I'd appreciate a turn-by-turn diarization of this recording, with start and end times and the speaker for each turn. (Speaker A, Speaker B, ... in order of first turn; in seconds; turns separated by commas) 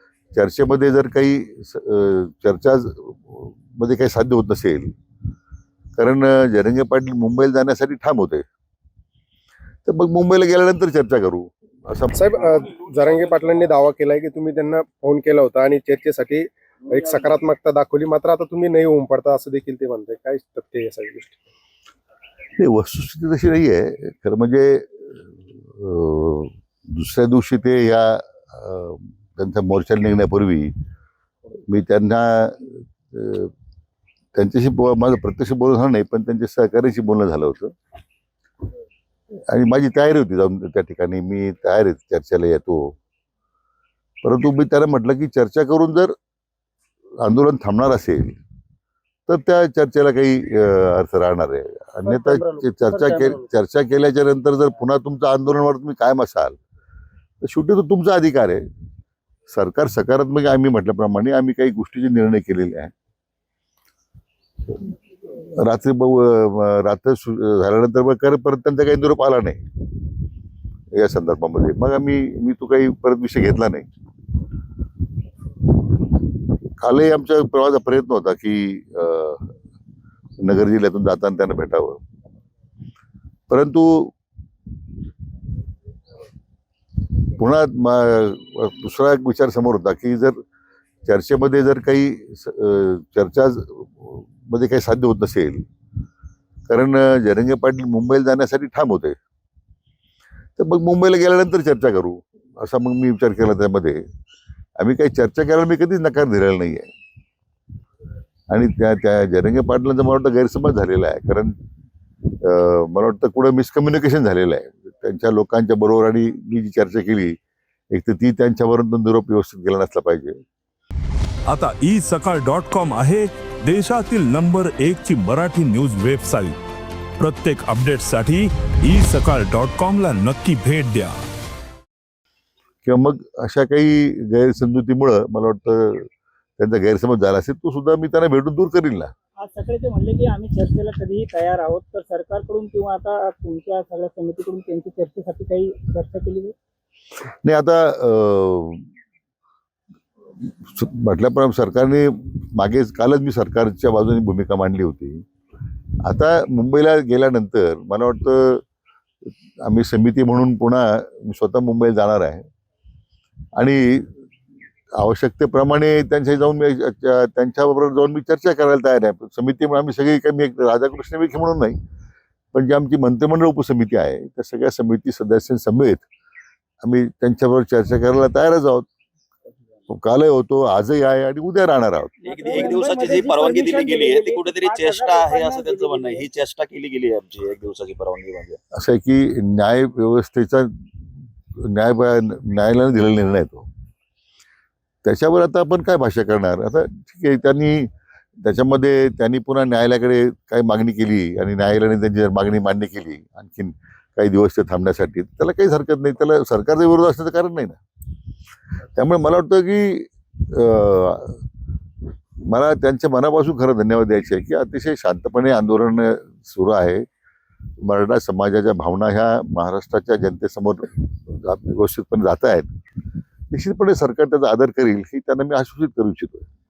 Speaker A: 0.3-4.9, Speaker A: 6.0-8.4, Speaker A: 9.8-12.1, Speaker B: 12.1-21.4, Speaker A: 22.6-30.7, Speaker A: 31.7-33.5, Speaker A: 34.4-37.7, Speaker A: 39.5-43.0, Speaker A: 44.2-46.1, Speaker A: 47.2-48.4, Speaker A: 49.3-56.6, Speaker C: 52.1-53.4, Speaker A: 57.4-58.6, Speaker A: 59.5-62.9, Speaker A: 65.3-69.6, Speaker A: 70.9-73.9, Speaker A: 76.8-79.5, Speaker A: 80.4-82.0, Speaker A: 83.5-84.1, Speaker A: 87.3-90.4, Speaker A: 91.0-95.6, Speaker A: 96.7-99.2, Speaker A: 100.6-104.0, Speaker A: 104.8-106.9, Speaker A: 108.5-111.6, Speaker A: 112.4-117.4, Speaker A: 117.9-120.4, Speaker D: 121.5-126.6, Speaker D: 127.2-131.1, Speaker A: 132.8-139.1, Speaker C: 139.4-146.5, Speaker A: 147.4-148.8, Speaker A: 150.4-155.2, Speaker A: 156.0-158.6, Speaker A: 159.6-162.5, Speaker A: 163.6-164.1, Speaker A: 165.0-171.8, Speaker A: 172.5-176.1, Speaker A: 176.8-178.9, Speaker A: 179.9-183.1, Speaker C: 182.2-186.3, Speaker E: 182.3-188.6, Speaker A: 188.7-190.8, Speaker A: 191.6-193.7, Speaker A: 195.0-207.8, Speaker A: 208.9-211.4, Speaker A: 212.4-217.1, Speaker A: 217.8-222.7, Speaker A: 223.5-226.4